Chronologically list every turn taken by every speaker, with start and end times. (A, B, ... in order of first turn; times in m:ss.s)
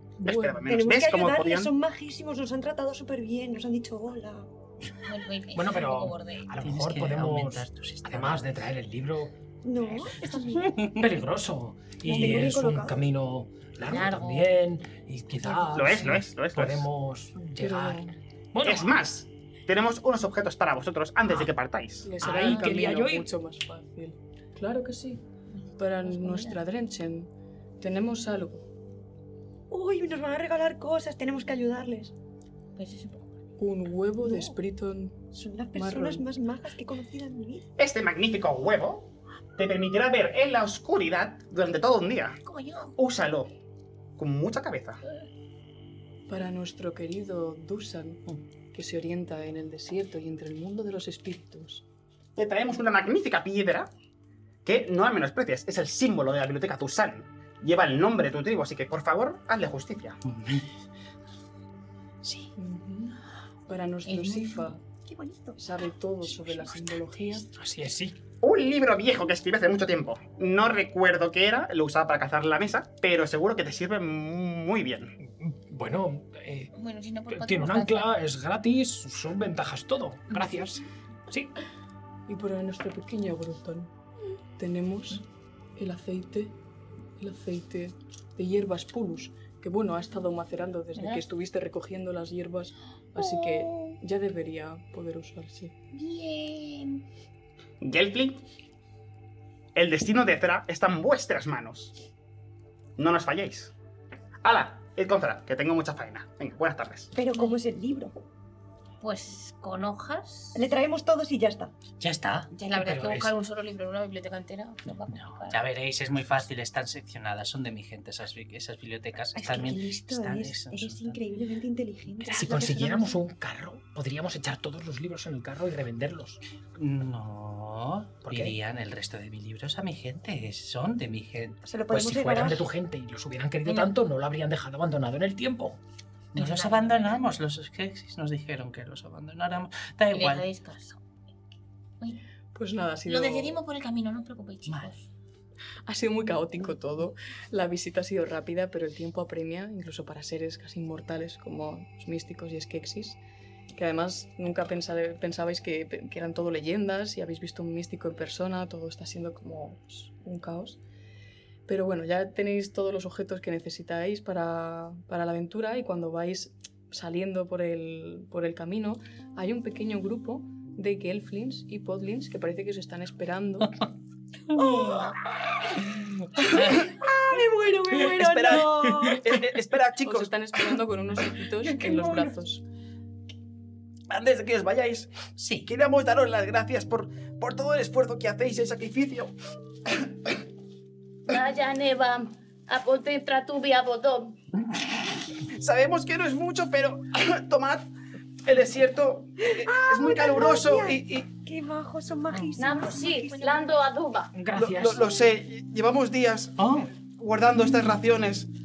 0:00.2-0:00.6 A
0:00.2-0:01.7 B
0:00.7-0:04.5 C
0:05.0-0:06.5 D
0:05.5-0:09.4 E
0:06.6-0:08.6 F
0:09.6-0:10.8 C
0:10.6-0:11.0 F
0:10.9-0:19.1 E
0:12.1-0:13.0 C
0:13.8-0:14.6 D
0:15.7-0:16.9 B
0:17.6-0:18.2 A
0:18.6-0:22.1 B
0:22.0-0:25.2 A
0:22.2-0:23.3 E
0:22.3-0:22.8 D
0:25.6-0:26.6 D
0:25.8-0:28.7 A
0:29.7-0:32.1 C
0:32.8-0:33.3 D
0:33.6-0:36.3 A
0:35.3-0:37.6 C
0:37.8-0:42.4 B
0:42.4-0:42.9 D
0:43.0-0:43.5 B
0:44.2-0:45.0 B
0:46.3-0:51.8 A
0:52.4-0:53.9 B
0:54.6-1:00.2 B
1:00.3-1:00.7 F
1:02.2-1:02.5 F
1:02.6-1:04.8 A
1:04.0-1:04.8 D
1:05.0-1:05.6 C
1:05.6-1:07.5 A
1:07.5-1:08.2 E
1:08.4-1:15.2 B
1:15.2-1:16.7 E
1:16.7-1:18.2 D
1:17.3-1:21.5 E
1:20.3-1:20.6 D
1:22.3-1:23.9 A
1:24.6-1:25.2 A
1:25.8-1:26.6 A
1:27.2-1:35.8 A
1:31.0-1:31.2 D
1:33.2-1:34.0 D
1:35.9-1:37.0 D
1:37.8-1:38.4 B
1:39.8-1:42.0 B
1:43.0-1:43.7 B
1:44.4-1:47.1 B
1:47.2-1:48.2 C
1:47.3-1:47.6 D
1:49.0-1:50.6 D
1:50.6-1:51.7 C
1:52.0-1:52.5 F
1:52.5-1:55.6 D
1:52.8-1:53.3 E
1:55.1-2:01.2 F
1:59.4-2:03.2 C
2:02.3-2:06.4 E
2:06.8-2:11.6 F
2:08.2-2:08.6 E
2:11.6-2:12.7 C
2:11.9-2:15.8 E
2:13.6-2:13.9 D
2:16.3-2:20.5 F
2:16.4-2:17.2 D
2:20.1-2:21.0 D
2:22.6-2:23.6 A
2:23.1-2:25.1 D
2:24.7-2:24.9 F
2:25.9-2:33.2 A
2:33.8-2:40.8 A
2:41.7-2:53.8 A
2:54.5-2:55.8 C
2:56.4-2:59.3 C
2:58.1-3:00.3 B
3:00.0-3:02.6 A
3:04.1-3:09.4 B
3:05.4-3:05.7 F
3:09.9-3:10.4 B
3:11.3-3:14.3 D
3:15.5-3:17.9 B
3:18.4-3:21.3 B
3:19.6-3:23.5 C
3:22.6-3:24.3 D
3:24.3-3:25.2 E
3:24.5-3:28.5 B